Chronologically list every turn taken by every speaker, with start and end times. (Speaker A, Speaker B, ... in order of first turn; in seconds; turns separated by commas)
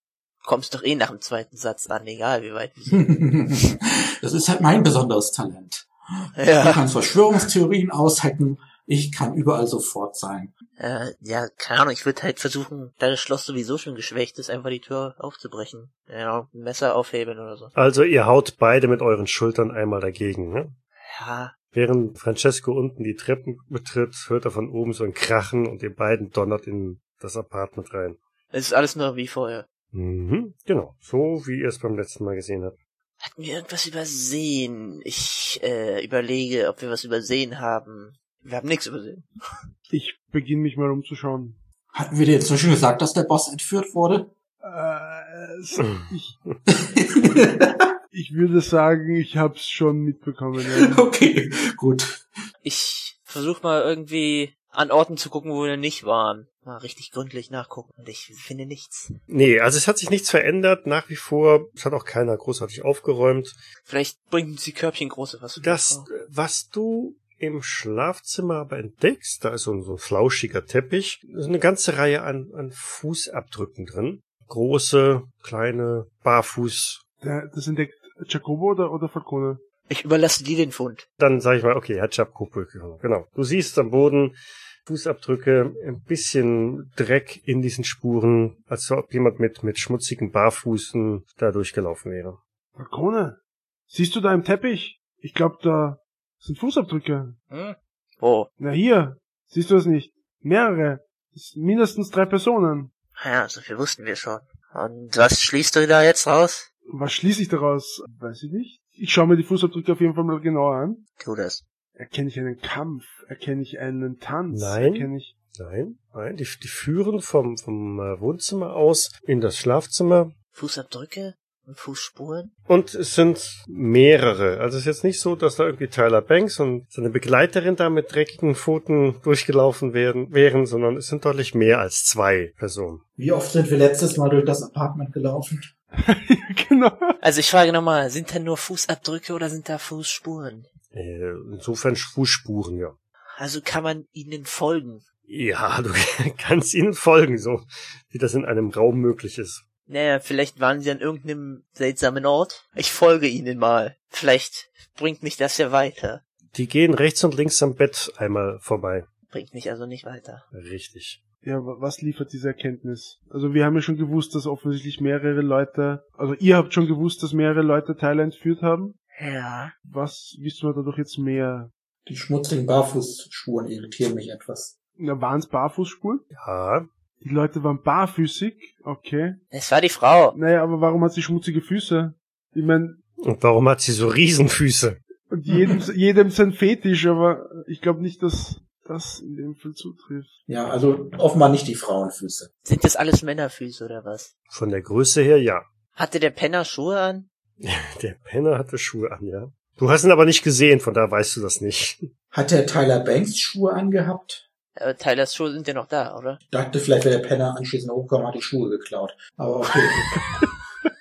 Speaker A: 0.4-3.3, Speaker B: 2.9-10.5, Speaker A: 6.4-6.8, Speaker A: 10.8-17.7, Speaker C: 17.8-20.8, Speaker A: 21.0-21.5, Speaker C: 21.7-28.2, Speaker A: 28.5-29.7, Speaker C: 29.9-32.8, Speaker A: 33.2-39.5, Speaker D: 39.9-41.6, Speaker B: 41.9-44.3, Speaker D: 44.6-46.4, Speaker B: 46.7-47.9, Speaker D: 48.1-51.0, Speaker B: 50.6-52.2, Speaker A: 52.6-59.2, Speaker C: 59.3-63.6, Speaker A: 63.9-66.1, Speaker C: 65.6-77.0, Speaker D: 77.2-79.6, Speaker A: 79.9-81.0, Speaker C: 81.2-92.4, Speaker D: 92.8-93.4, Speaker D: 93.9-97.4, Speaker A: 97.5-98.5, Speaker D: 98.6-102.9, Speaker A: 103.2-106.7, Speaker D: 106.9-111.0, Speaker A: 111.2-111.6, Speaker D: 112.0-115.3, Speaker C: 114.5-120.3, Speaker A: 120.5-122.5, Speaker C: 122.7-133.0, Speaker B: 133.2-135.7, Speaker D: 136.0-137.2, Speaker A: 137.2-140.7, Speaker C: 140.9-142.9, Speaker A: 143.4-145.0, Speaker C: 145.3-149.6, Speaker A: 149.9-156.2, Speaker C: 156.5-159.1, Speaker A: 159.3-160.4, Speaker C: 160.5-161.2, Speaker D: 161.4-169.0, Speaker A: 169.2-169.7, Speaker D: 169.8-171.7, Speaker B: 172.1-174.7, Speaker D: 175.0-176.2, Speaker C: 176.3-176.9, Speaker D: 177.2-179.4, Speaker A: 179.5-180.4, Speaker D: 180.3-183.0, Speaker C: 183.2-185.0, Speaker D: 185.3-190.3, Speaker B: 190.5-192.5, Speaker A: 192.6-194.3, Speaker C: 194.5-195.7, Speaker A: 196.0-197.3, Speaker C: 197.6-202.1, Speaker B: 202.3-204.4, Speaker A: 204.8-206.4, Speaker B: 206.5-210.2